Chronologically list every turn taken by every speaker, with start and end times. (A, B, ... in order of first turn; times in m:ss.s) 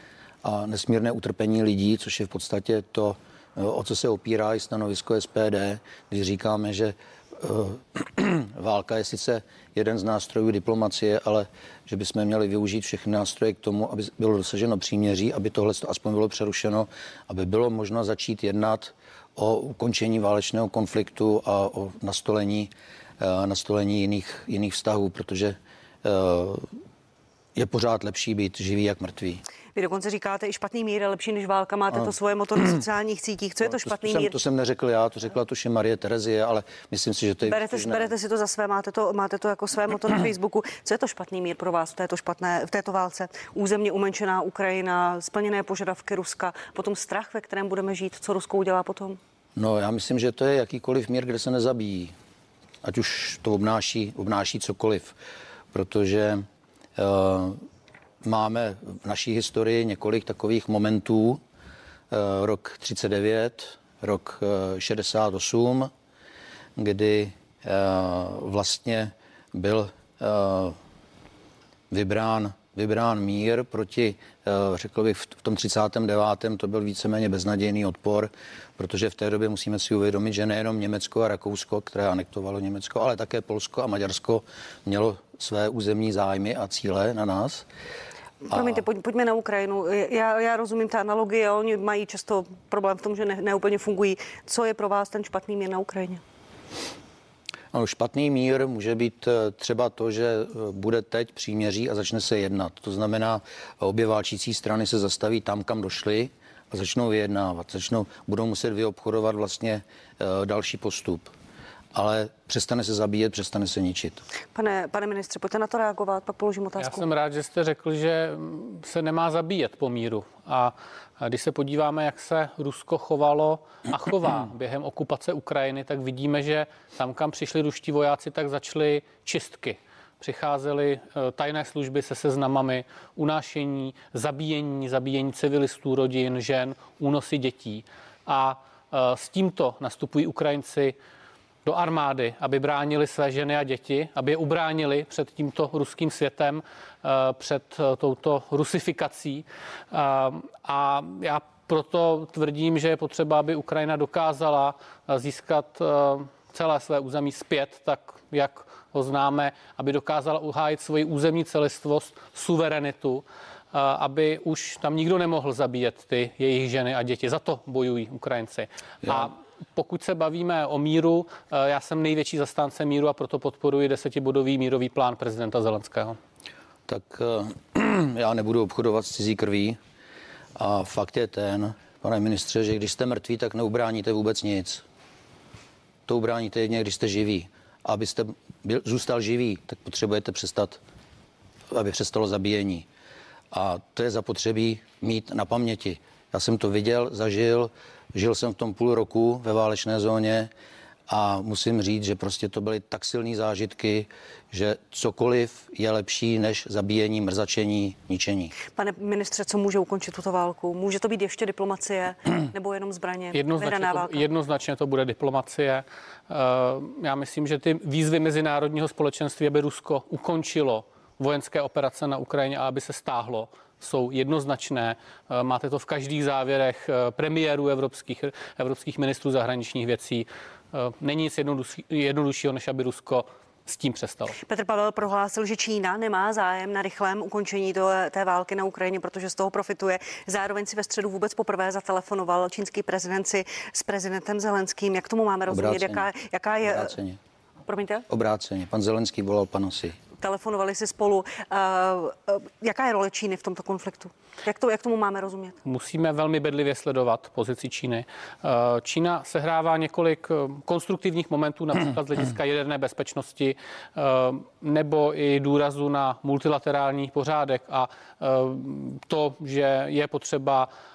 0:00.4-0:26.7 A
0:27.5-0:29.4 A
0:29.7-0:34.3 B
0:33.6-0:38.1 A
0:37.4-0:49.2 B
0:49.6-0:52.1 A
0:52.8-0:55.1 A
0:55.7-0:56.4 A
0:57.0-0:57.6 A
0:58.2-1:01.4 A
1:02.1-1:05.9 A
1:06.8-1:10.8 A
1:11.9-1:27.7 A
1:28.4-1:36.2 B
1:28.5-1:28.8 A
1:37.7-1:51.3 A
1:51.9-1:54.2 A
1:54.5-1:57.0 B
1:56.8-2:20.9 C
2:21.6-2:56.2 C
2:49.0-2:49.3 A
2:56.9-2:59.8 A
3:00.6-3:04.8 A
3:06.1-3:10.8 A
3:11.7-3:12.9 A
3:13.5-3:20.5 A
3:21.1-3:28.5 A
3:28.7-3:34.2 B
3:33.3-3:54.4 C
3:54.4-4:06.9 B
4:05.5-4:06.1 A
4:06.6-4:07.2 A
4:07.6-4:08.0 B
4:08.1-4:10.0 A
4:10.2-4:15.6 B
4:15.6-4:30.7 C